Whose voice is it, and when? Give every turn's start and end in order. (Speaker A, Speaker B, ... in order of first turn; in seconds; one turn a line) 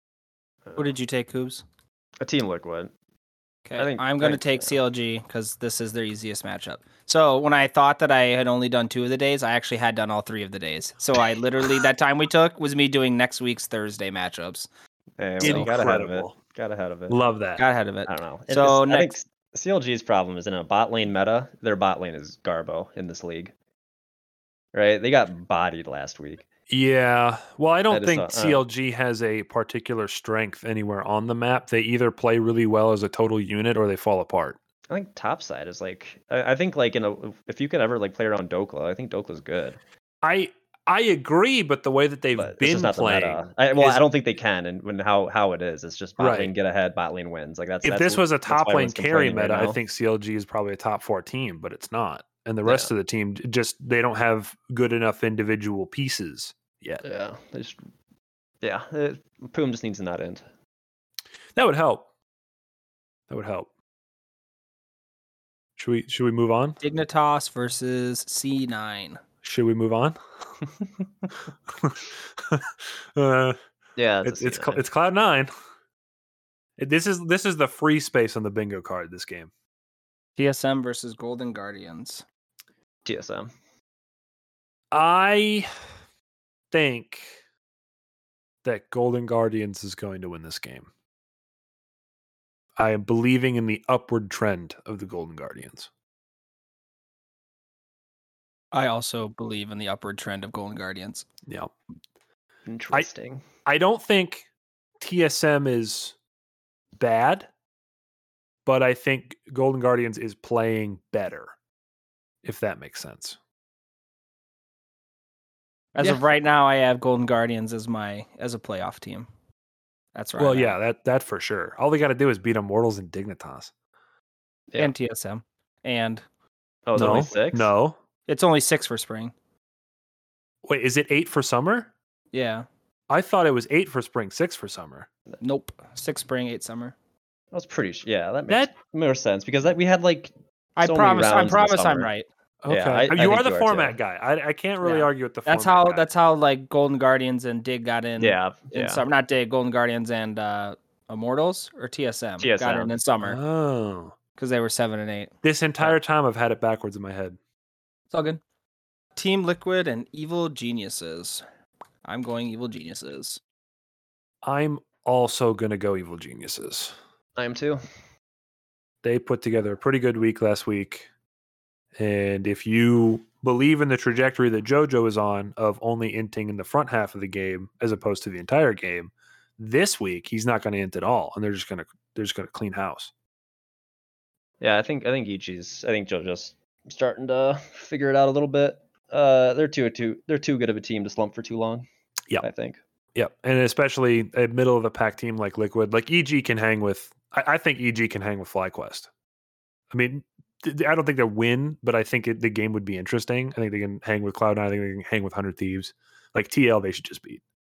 Speaker A: 0.7-0.9
Speaker B: 0.8-1.6
Speaker A: 2.2-2.9
Speaker B: 3.7-14.7
Speaker A: 3.8-4.8
Speaker A: 15.2-17.2
Speaker C: 15.4-16.4
Speaker B: 15.4-15.7
Speaker C: 17.1-17.6
Speaker B: 17.6-19.1
Speaker A: 18.1-23.5
Speaker A: 24.7-26.4
Speaker C: 26.7-34.6
Speaker A: 27.9-28.6
Speaker A: 34.9-39.8
Speaker C: 40.2-44.0
Speaker A: 42.4-49.8
Speaker C: 46.2-46.5
Speaker C: 47.8-57.0
Speaker A: 52.6-52.9
Speaker A: 57.0-57.8
Speaker A: 58.6-60.4
Speaker C: 61.5-62.0
Speaker C: 63.3-63.7
Speaker C: 65.8-66.8
Speaker B: 66.8-69.2
Speaker C: 69.4-70.2
Speaker C: 71.7-73.6
Speaker A: 74.0-74.8
Speaker C: 74.2-75.5
Speaker C: 76.8-79.5
Speaker B: 80.4-82.2
Speaker A: 83.0-83.5
Speaker C: 84.9-85.7
Speaker C: 86.7-87.4
Speaker C: 88.6-90.9
Speaker C: 92.8-95.9
Speaker B: 98.7-101.2
Speaker C: 101.5-101.7
Speaker A: 102.7-103.4
Speaker C: 103.6-104.5
Speaker C: 105.0-106.1
Speaker C: 107.0-107.5
Speaker C: 108.6-111.5
Speaker C: 112.4-113.4
Speaker B: 115.9-119.3
Speaker B: 120.1-120.7
Speaker C: 120.4-123.7
Speaker B: 124.8-126.2
Speaker A: 126.9-127.7
Speaker C: 126.9-128.0
Speaker B: 128.3-129.3
Speaker C: 130.6-131.9
Speaker B: 132.3-132.7
Speaker C: 133.1-135.1
Speaker B: 135.4-136.9
Speaker A: 137.5-140.3
Speaker B: 140.8-142.2
Speaker A: 140.8-142.1
Speaker C: 142.6-146.0
Speaker A: 142.7-143.9
Speaker B: 144.8-153.4
Speaker A: 148.2-149.0
Speaker A: 152.4-152.9
Speaker C: 153.2-154.1
Speaker B: 154.4-155.3
Speaker C: 155.4-157.4
Speaker B: 158.1-158.4
Speaker B: 159.2-161.4
Speaker B: 162.0-163.4
Speaker C: 164.4-166.9
Speaker A: 167.3-167.8
Speaker C: 169.0-171.1
Speaker C: 172.0-183.1
Speaker A: 184.6-191.8
Speaker A: 192.4-192.8
Speaker C: 193.1-199.1
Speaker C: 199.9-207.4